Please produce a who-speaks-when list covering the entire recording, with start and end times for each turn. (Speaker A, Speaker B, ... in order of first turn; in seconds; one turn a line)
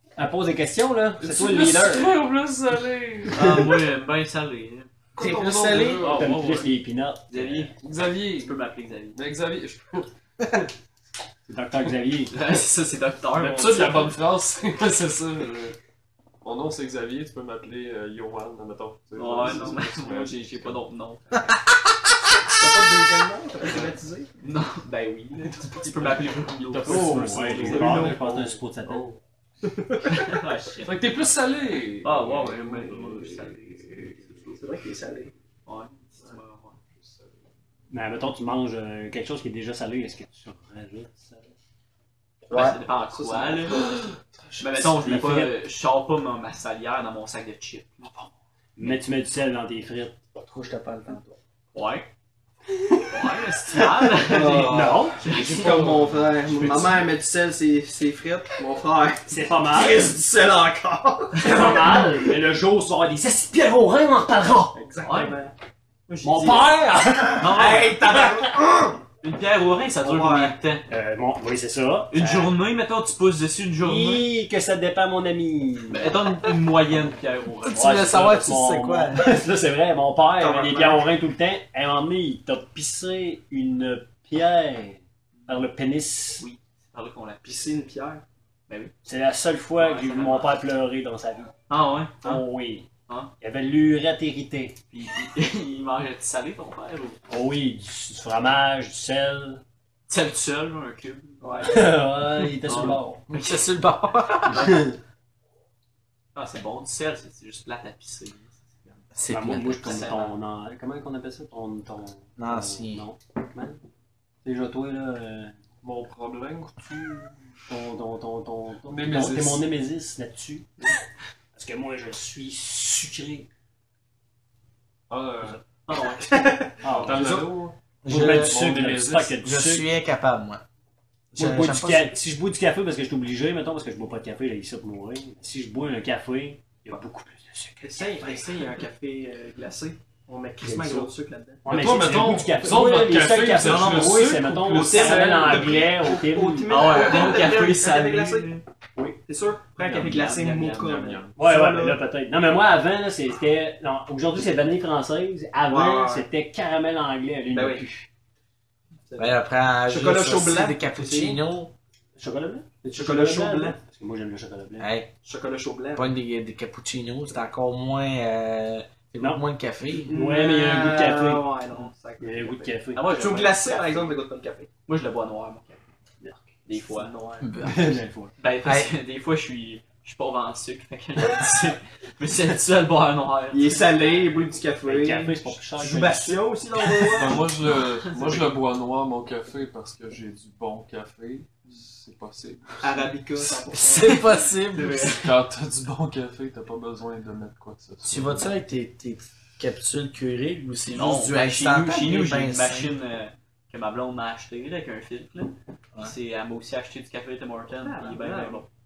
Speaker A: 0.1-2.1
Speaker B: 1.2-3.6
Speaker C: 3.3-4.9
Speaker B: 5.2-6.7
Speaker D: 5.2-6.2
Speaker A: 6.0-7.7
Speaker C: 7.3-9.2
Speaker B: 7.8-8.6
Speaker B: 9.1-10.1
Speaker A: 11.4-12.4
Speaker C: 12.3-14.2
Speaker B: 13.3-15.8
Speaker B: 16.4-20.8
Speaker C: 19.1-21.5
Speaker E: 22.6-24.3
Speaker C: 24.4-27.3
Speaker B: 25.8-29.2
Speaker A: 26.9-29.1
Speaker E: 27.6-28.2
Speaker E: 29.6-30.1
Speaker C: 30.1-31.1
Speaker B: 30.8-33.5
Speaker C: 32.0-34.6
Speaker E: 34.5-35.3
Speaker C: 35.6-36.8
Speaker B: 37.0-37.3
Speaker A: 37.9-41.5
Speaker D: 42.5-42.8
Speaker C: 42.5-43.9
Speaker E: 43.1-43.8
Speaker B: 43.7-44.9
Speaker C: 44.6-48.1
Speaker A: 45.0-45.5
Speaker A: 48.8-50.2
Speaker D: 50.4-51.4
Speaker C: 51.7-52.1
Speaker C: 53.1-57.0
Speaker E: 54.1-62.2
Speaker A: 54.6-55.3
Speaker B: 55.3-56.8
Speaker A: 59.3-60.0
Speaker A: 61.4-64.8
Speaker E: 64.7-65.5
Speaker C: 65.0-65.4
Speaker E: 66.1-66.7
Speaker A: 66.2-67.8
Speaker E: 67.3-69.0
Speaker C: 67.3-68.4
Speaker C: 69.2-70.8
Speaker E: 70.0-70.6
Speaker A: 70.9-72.5
Speaker C: 72.1-74.3
Speaker A: 73.8-76.1
Speaker C: 75.9-78.3
Speaker D: 77.7-79.4
Speaker A: 77.8-86.5
Speaker E: 80.3-81.1
Speaker C: 86.4-87.7
Speaker E: 87.4-88.2
Speaker C: 88.7-88.9
Speaker A: 89.0-91.5
Speaker C: 89.8-90.6
Speaker C: 91.7-92.5
Speaker A: 92.2-92.9
Speaker A: 93.4-94.8
Speaker C: 94.9-97.2
Speaker A: 97.3-99.6
Speaker C: 100.1-101.9
Speaker E: 101.4-101.9
Speaker A: 101.6-103.2
Speaker C: 102.6-103.6
Speaker D: 103.3-104.8
Speaker A: 104.5-104.9
Speaker C: 106.3-109.0
Speaker D: 109.1-110.0
Speaker A: 109.3-113.8
Speaker C: 109.7-110.4
Speaker D: 112.4-113.0
Speaker A: 114.4-115.6
Speaker B: 115.8-117.3
Speaker A: 117.7-121.0
Speaker B: 118.8-119.7
Speaker A: 121.5-123.5
Speaker B: 125.1-125.6
Speaker C: 125.9-126.5
Speaker E: 126.2-127.4
Speaker A: 126.8-127.5
Speaker B: 126.8-129.4
Speaker D: 128.0-128.6
Speaker A: 128.1-129.9
Speaker D: 129.4-130.6
Speaker D: 131.3-132.1
Speaker A: 131.3-138.4
Speaker E: 137.8-141.6
Speaker A: 140.6-141.1
Speaker A: 141.6-147.0
Speaker B: 141.6-145.8
Speaker C: 143.6-144.2
Speaker E: 144.7-152.0
Speaker C: 146.7-148.6
Speaker C: 149.8-150.9
Speaker B: 150.7-151.4
Speaker A: 151.3-158.1
Speaker E: 155.7-156.3
Speaker E: 157.5-157.8
Speaker E: 159.0-161.4
Speaker D: 159.2-161.7
Speaker A: 162.2-164.9
Speaker E: 162.8-163.8
Speaker D: 164.8-165.1
Speaker E: 165.2-166.1
Speaker D: 165.9-170.1
Speaker A: 170.0-171.5
Speaker E: 170.1-174.7
Speaker A: 172.2-173.1
Speaker C: 172.9-174.1
Speaker C: 174.9-175.8
Speaker A: 176.2-176.5
Speaker C: 176.7-177.1
Speaker E: 176.7-177.5
Speaker D: 177.5-177.7
Speaker A: 177.6-178.3
Speaker C: 178.4-184.2
Speaker D: 178.6-178.9
Speaker E: 183.5-187.5
Speaker A: 184.8-186.5
Speaker B: 187.0-193.1
Speaker C: 188.1-188.4
Speaker E: 192.8-194.3
Speaker D: 193.8-195.2
Speaker C: 194.7-195.2
Speaker B: 195.1-198.5
Speaker D: 198.0-202.9
Speaker C: 200.9-208.7
Speaker E: 207.8-208.6